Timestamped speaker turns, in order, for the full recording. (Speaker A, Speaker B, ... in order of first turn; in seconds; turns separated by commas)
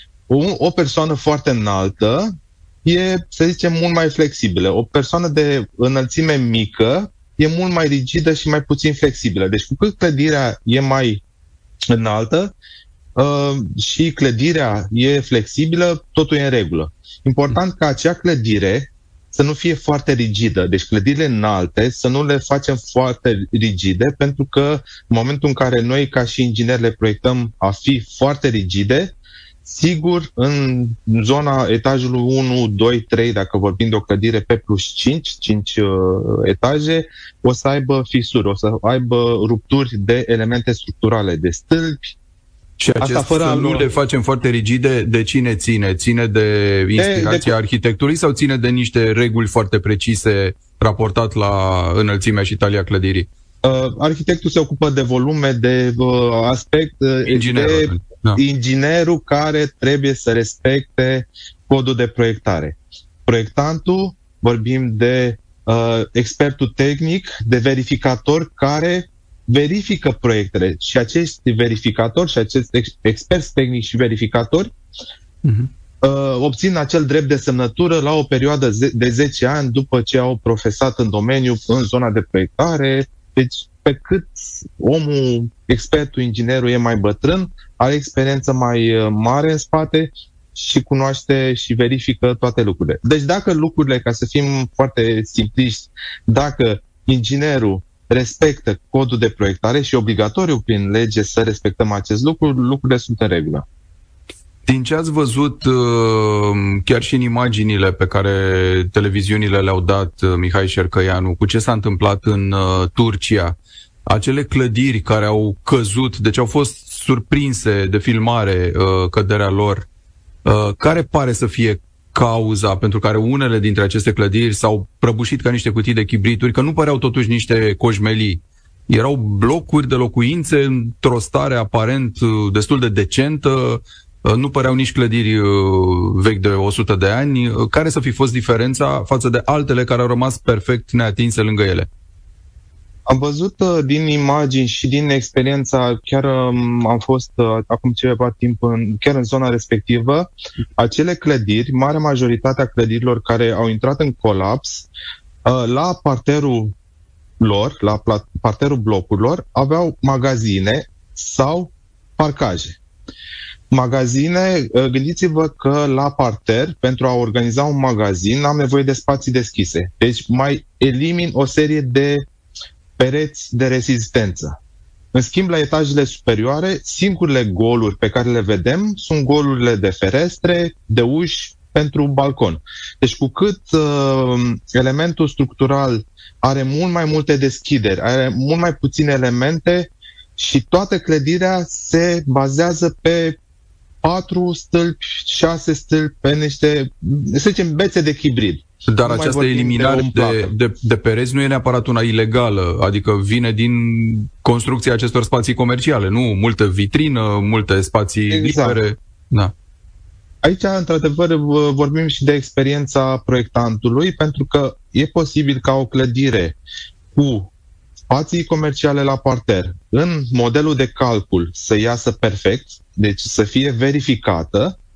Speaker A: 0.3-2.3, Speaker A: 2.8-11.2, Speaker A: 11.9-12.5, Speaker A: 13.2-29.1, Speaker A: 29.6-42.1, Speaker B: 42.8-53.3, Speaker A: 43.0-43.9, Speaker A: 47.0-47.5, Speaker A: 53.6-74.7, Speaker B: 57.3-58.4, Speaker B: 75.4-75.7, Speaker A: 76.0-103.6, Speaker B: 104.7-119.9, Speaker B: 120.4-141.9, Speaker A: 143.1-154.9, Speaker A: 155.4-156.7, Speaker A: 157.4-162.8, Speaker A: 163.7-172.3, Speaker A: 173.0-174.6, Speaker A: 175.1-193.4, Speaker A: 194.0-200.5, Speaker B: 198.8-209.5, Speaker A: 208.3-208.8, Speaker A: 210.4-216.6, Speaker A: 217.1-217.5, Speaker A: 218.1-224.8